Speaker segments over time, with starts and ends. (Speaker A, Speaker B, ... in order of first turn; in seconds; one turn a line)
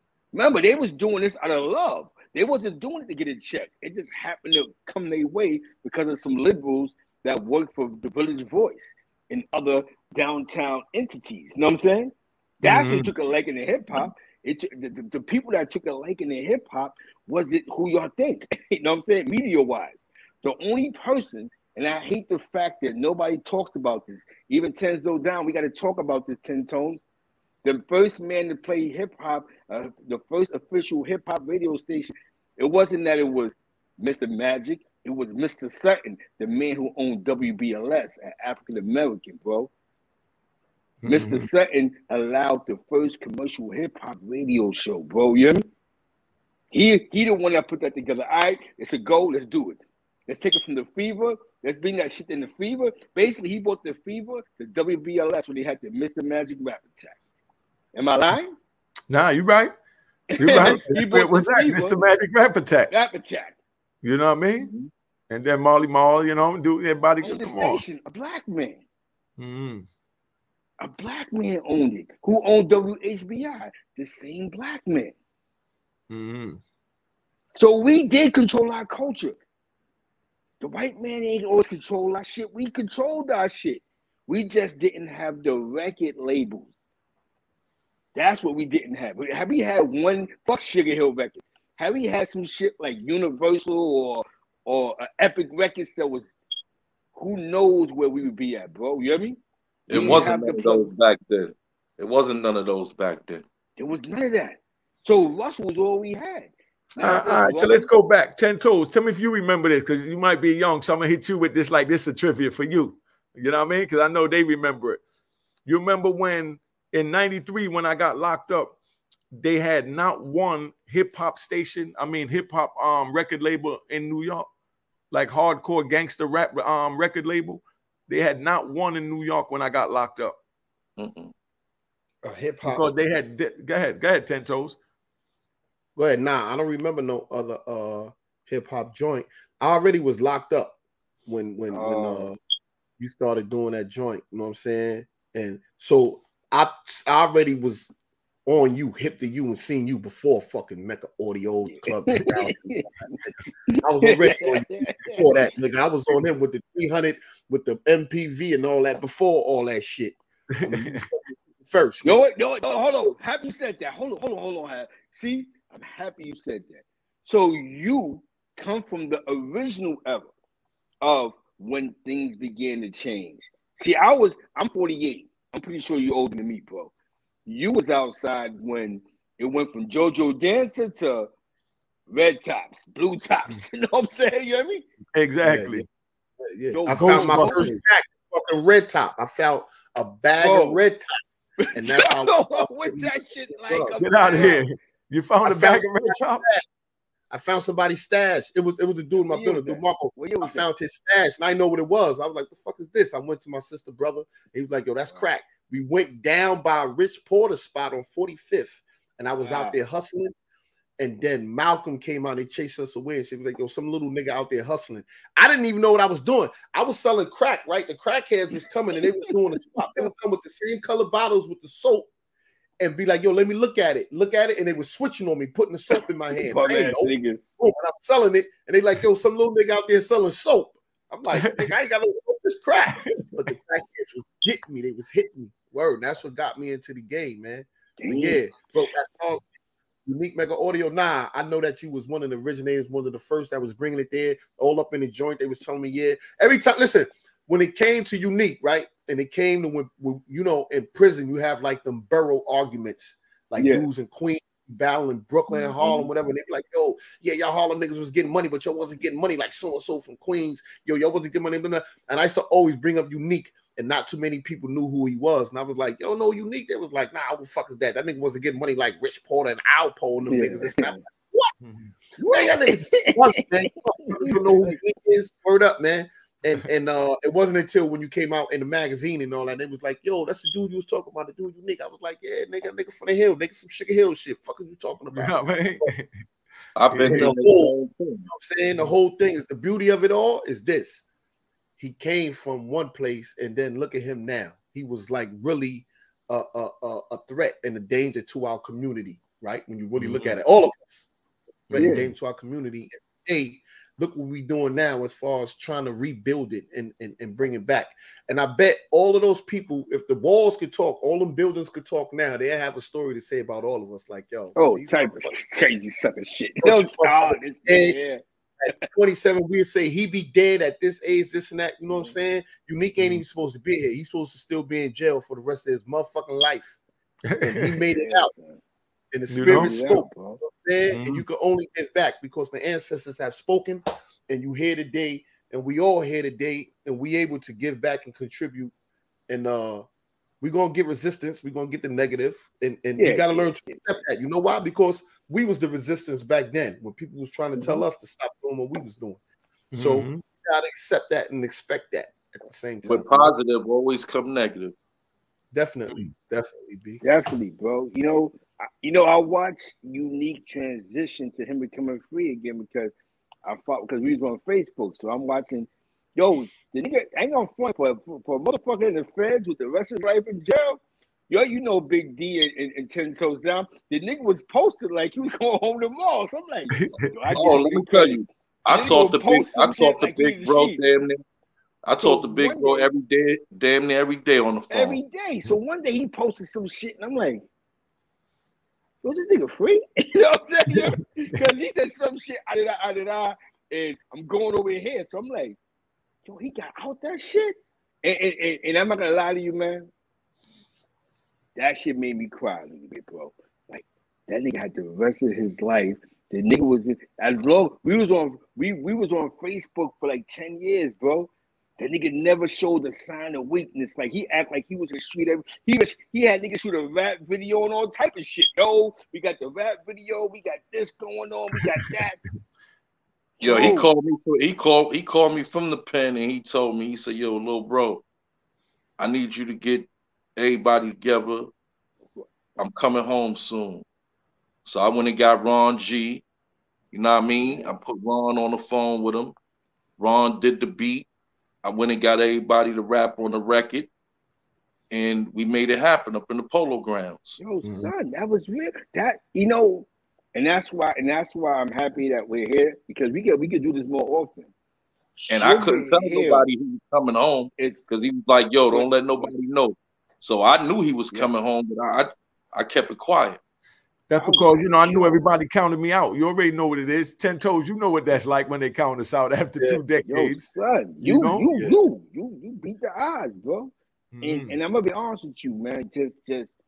Speaker A: 0.3-27.0
Speaker B: 12.6-13.1
Speaker A: 27.6-39.7
Speaker B: 41.0-41.5
Speaker A: 41.1-45.6
Speaker A: 46.7-57.2
Speaker A: 57.9-58.6
Speaker B: 59.1-59.7
Speaker A: 60.3-62.0
Speaker B: 60.4-62.9
Speaker A: 62.9-63.6
Speaker B: 64.0-64.7
Speaker C: 64.6-64.9
Speaker B: 65.3-67.8
Speaker A: 67.2-68.8
Speaker B: 69.4-69.8
Speaker A: 70.8-75.2
Speaker B: 76.1-76.6
Speaker A: 77.6-79.3
Speaker A: 80.6-86.7
Speaker A: 88.2-96.3
Speaker A: 97.2-100.9
Speaker C: 99.9-103.4
Speaker A: 103.8-107.9
Speaker B: 107.0-115.0
Speaker B: 115.7-118.8
Speaker B: 119.3-124.5
Speaker B: 125.1-130.3
Speaker C: 131.0-131.3
Speaker D: 132.2-132.9
Speaker B: 132.7-134.8
Speaker D: 135.9-142.3
Speaker A: 141.7-142.3
Speaker D: 143.0-147.9
Speaker D: 148.5-152.6
Speaker A: 151.7-155.5
Speaker D: 153.8-162.2
Speaker B: 160.5-161.0
Speaker A: 162.0-170.3
Speaker A: 171.0-176.9
Speaker A: 177.4-181.3
Speaker A: 182.1-184.8
Speaker B: 185.2-185.8
Speaker D: 185.4-185.9
Speaker D: 186.4-191.2
Speaker A: 186.7-187.7
Speaker B: 186.9-187.8
Speaker A: 190.4-190.8
Speaker A: 191.6-194.6
Speaker D: 191.7-194.6
Speaker B: 194.0-196.4
Speaker D: 195.4-196.7
Speaker D: 197.3-210.3
Speaker A: 199.3-200.7
Speaker A: 209.4-209.8
Speaker D: 211.0-222.1
Speaker A: 219.8-220.1
Speaker D: 222.8-239.4
Speaker A: 226.4-227.4
Speaker B: 231.4-231.7
Speaker B: 233.0-233.3
Speaker A: 238.0-238.4
Speaker D: 240.1-271.5
Speaker A: 253.6-253.8
Speaker A: 255.5-256.1
Speaker A: 270.3-271.0
Speaker B: 271.6-271.9
Speaker A: 272.2-273.4
Speaker D: 272.2-285.9
Speaker A: 274.1-274.8
Speaker B: 285.1-286.1
Speaker C: 286.8-288.3
Speaker B: 286.9-287.3
Speaker D: 287.0-287.7
Speaker D: 288.3-291.1
Speaker D: 291.8-301.1
Speaker D: 301.7-315.4
Speaker B: 301.7-302.0
Speaker A: 301.7-302.1
Speaker A: 314.6-318.9
Speaker D: 316.6-318.0
Speaker D: 318.6-326.8
Speaker B: 323.0-323.2
Speaker B: 327.3-327.8
Speaker D: 327.4-328.3
Speaker A: 327.9-328.6
Speaker D: 329.1-338.7
Speaker B: 329.3-329.7
Speaker A: 329.4-330.4
Speaker B: 330.9-331.2
Speaker D: 339.3-339.8
Speaker D: 340.4-349.2
Speaker A: 343.0-343.9
Speaker B: 349.7-350.2
Speaker D: 349.7-353.3
Speaker C: 352.8-354.7
Speaker D: 355.5-357.0
Speaker A: 357.0-362.9
Speaker A: 363.4-380.8
Speaker B: 376.7-377.6
Speaker C: 377.3-381.2
Speaker C: 381.8-385.0
Speaker A: 382.0-382.9
Speaker A: 384.7-387.4
Speaker A: 389.0-395.6
Speaker A: 396.2-399.9
Speaker A: 401.6-422.2
Speaker A: 423.4-423.9
Speaker C: 423.4-428.0
Speaker C: 429.0-431.5
Speaker C: 432.6-433.9
Speaker C: 434.7-436.2
Speaker C: 436.9-439.3
Speaker A: 437.4-437.7
Speaker C: 440.0-441.1
Speaker C: 441.6-443.9
Speaker C: 444.9-447.4
Speaker A: 447.4-454.5
Speaker B: 447.6-447.9
Speaker A: 455.2-456.4
Speaker C: 455.3-463.4
Speaker A: 457.6-457.8
Speaker A: 458.7-459.3
Speaker B: 464.1-471.6
Speaker A: 464.2-465.2
Speaker A: 469.9-476.5
Speaker B: 474.1-474.6